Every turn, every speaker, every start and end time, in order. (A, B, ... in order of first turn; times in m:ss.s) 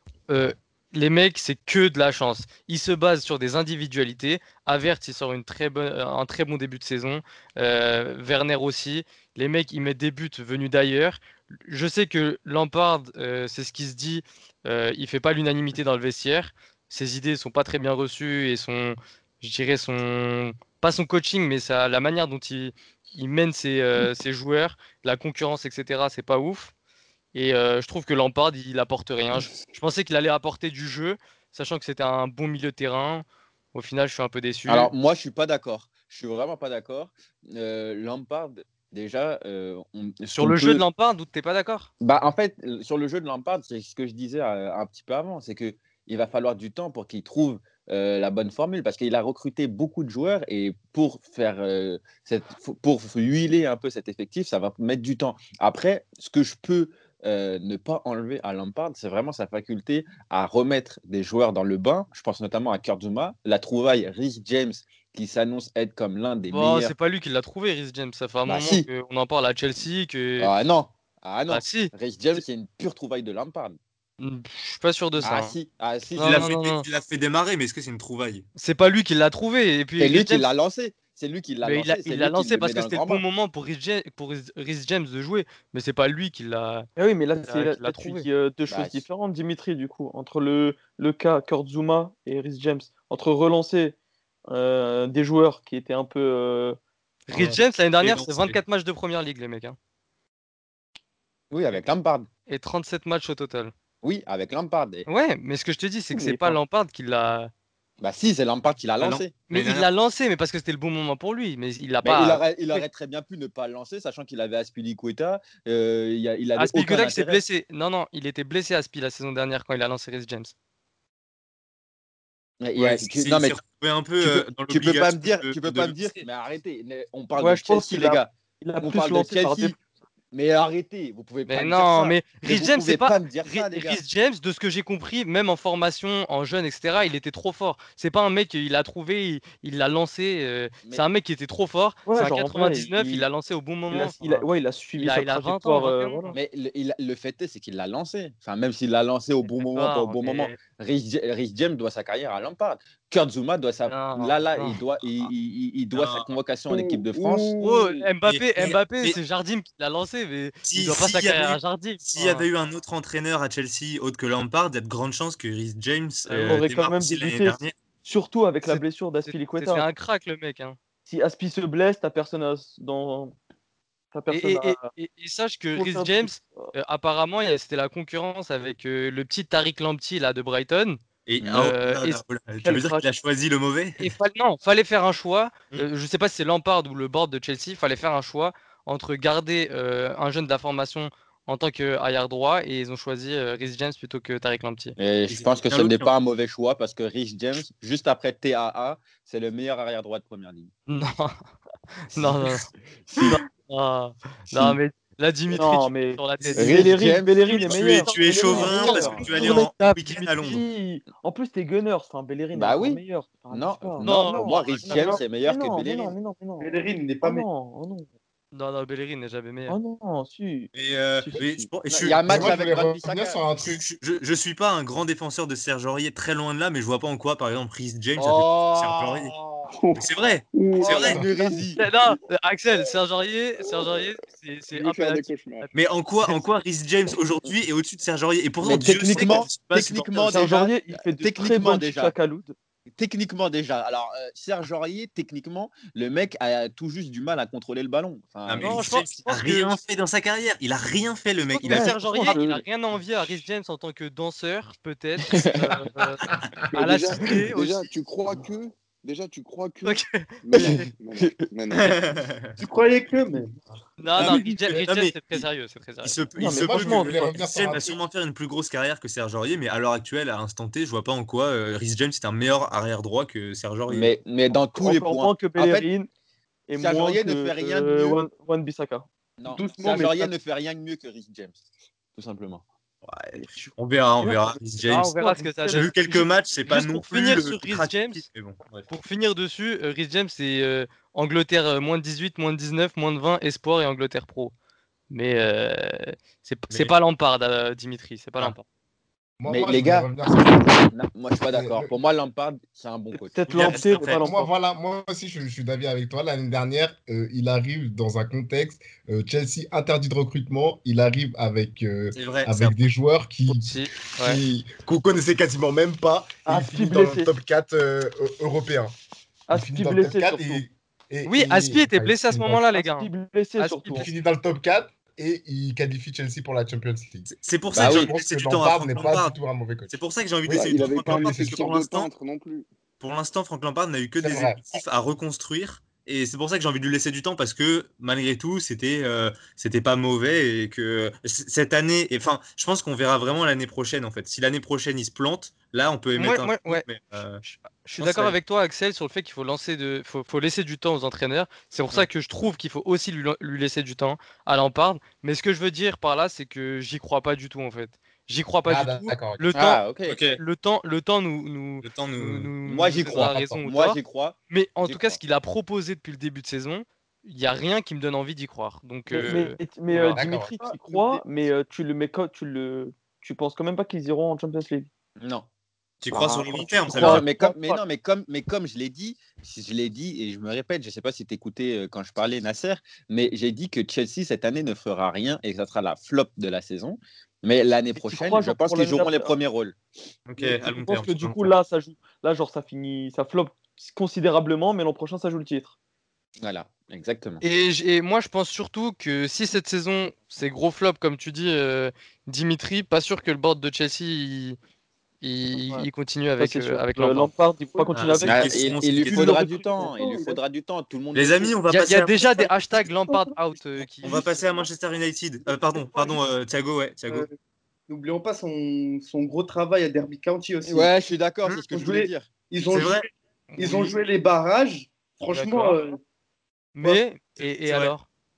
0:00.3-0:26.7 A
0:27.3-0:34.9 A
0:34.7-0:40.8 B
0:40.3-0:41.9 A
0:42.0-1:06.9 B
1:06.5-1:10.5 A
1:08.4-1:08.9 B
1:10.4-1:13.8 B
1:11.5-1:11.9 A
1:14.2-1:15.6 A
1:15.2-1:16.5 B
1:16.2-1:16.8 A
1:16.2-1:18.4 C
1:18.6-1:20.5 A
1:20.0-1:23.2 B
1:21.6-1:26.9 A
1:27.0-1:34.0 D
1:27.4-1:28.3 A
1:28.7-1:29.0 B
1:34.5-1:36.8 D
1:37.3-1:39.8 A
1:37.3-1:38.6 C
1:41.5-1:42.3 B
1:42.5-1:43.7 A
1:44.0-1:45.0 B
1:45.1-1:47.5 A
1:46.1-1:46.6 D
1:48.0-1:49.4 B
1:49.0-1:49.9 C
1:49.5-1:52.8 A
1:52.0-1:57.4 B
1:56.6-2:00.5 A
2:02.6-2:03.6 B
2:02.8-2:06.2 C
2:04.2-2:09.8 B
2:07.4-2:09.8 D
2:10.3-2:14.0 B
2:11.5-2:24.4 A
2:22.1-2:23.2 D
2:23.9-2:26.3 D
2:25.0-2:26.4 A
2:26.3-2:37.5 B
2:29.5-2:30.6 A
2:33.9-2:34.8 A
2:35.9-2:36.3 C
2:36.7-2:38.1 E
2:37.6-2:42.5 A
2:38.2-2:39.2 C
2:40.6-2:47.7 C
2:46.3-2:49.8 D
2:46.3-2:46.6 A
2:48.7-2:50.8 A
2:51.1-2:53.3 D
2:54.1-2:54.9 D
2:54.3-3:02.7 A
2:55.7-2:56.7 D
3:01.2-3:04.1 C
3:02.6-3:03.0 D
3:04.0-3:15.0 A
3:15.0-3:20.7 B
3:15.3-3:16.1 C
3:20.9-3:21.4 A
3:22.1-3:22.7 A
3:22.2-3:22.5 B
3:23.1-3:23.4 B
3:23.2-3:27.0 A
3:24.5-3:24.8 B
3:25.5-3:38.0 D
3:26.5-3:29.4 B
3:27.6-3:30.6 C
3:28.0-3:30.2 A
3:32.5-3:36.2 B
3:34.0-3:34.6 A
3:34.6-3:35.2 C
3:36.6-3:37.4 F
3:38.5-3:39.8 A
3:39.7-3:41.4 D
3:40.7-3:42.6 C
3:41.4-3:41.6 E
3:41.9-3:43.4 B
3:42.2-3:43.8 G
3:43.6-3:49.3 C
3:48.2-3:49.7 B
3:49.7-3:51.7 E
3:50.0-3:51.2 C
3:50.8-3:51.8 B
3:51.8-3:55.7 A
3:53.7-3:54.0 E
3:54.7-3:55.7 E
3:55.7-4:00.5 C
3:58.6-4:02.1 B
4:00.2-4:02.5 D
4:03.0-4:08.9 B
4:08.4-4:12.3 C
4:08.6-4:09.8 A
4:11.5-4:17.9 A
4:11.6-4:12.6 D
4:15.3-4:15.7 B
4:16.7-4:22.0 E
4:19.8-4:20.8 A
4:20.5-4:21.4 B
4:21.7-4:22.6 C
4:22.6-4:23.6 F
4:24.0-4:26.2 A
4:24.2-4:25.4 C
4:26.0-4:34.1 C
4:26.4-4:27.4 D
4:26.4-4:28.0 G
4:33.9-4:35.9 B
4:34.7-4:36.1 D
4:36.7-4:39.0 D
4:36.7-4:38.2 B
4:39.4-4:41.6 B
4:39.5-4:40.3 F
4:42.1-4:42.6 B
4:43.0-4:45.1 C
4:43.4-4:45.9 D
4:44.9-4:48.2 A
4:45.7-4:48.9 C
4:48.9-4:54.5 A
4:55.1-4:58.6 A
4:56.7-4:56.9 C
4:59.4-5:00.9 G
4:59.5-5:03.8 B
5:01.5-5:01.9 G
5:03.1-5:04.5 D
5:03.5-5:04.2 C
5:04.1-5:18.9 G
5:12.1-5:12.7 C
5:13.5-5:14.4 A
5:16.4-5:17.3 D
5:19.5-5:20.6 D
5:19.5-5:22.6 G
5:21.2-5:24.1 A
5:22.7-5:24.1 D
5:23.9-5:30.0 G
5:27.3-5:29.3 C
5:27.7-5:28.1 B
5:29.9-5:32.1 C
5:30.5-5:32.6 E
5:30.5-5:31.6 G
5:33.0-5:47.4 C
5:34.2-5:34.6 G
5:46.2-5:46.8 A
5:47.4-5:59.8 A
5:48.0-5:48.4 C
5:58.6-5:59.4 G
5:59.5-6:00.3 B
6:00.0-6:00.4 C
6:00.4-6:04.0 A
6:01.8-6:02.5 C
6:02.6-6:05.2 B
6:04.5-6:10.2 A
6:09.1-6:14.9 D
6:10.1-6:10.5 G
6:10.6-6:11.2 F
6:15.2-6:15.4 B
6:16.0-6:17.3 C
6:16.1-6:29.8 B
6:16.9-6:17.5 D
6:28.0-6:29.3 D
6:30.2-6:31.5 C
6:30.4-6:35.7 D
6:36.4-6:37.4 B
6:37.4-6:44.6 A
6:45.2-6:47.3 A
6:45.5-6:45.8 D
6:46.4-6:49.9 D
6:47.8-6:48.2 F
6:47.9-6:49.4 C
6:48.2-6:51.6 B
6:49.3-6:50.4 F
6:51.1-6:52.2 C
6:51.7-6:54.2 A
6:52.2-6:53.3 F
6:54.0-6:57.3 C
6:54.0-6:54.7 F
6:55.6-6:56.2 F
6:57.9-7:00.9 F
7:00.6-7:02.3 B
7:01.7-7:03.0 F
7:02.6-7:03.0 C
7:03.6-7:06.0 F
7:03.6-7:04.0 C
7:05.3-7:05.8 A
7:06.7-7:08.0 A
7:07.4-7:07.9 C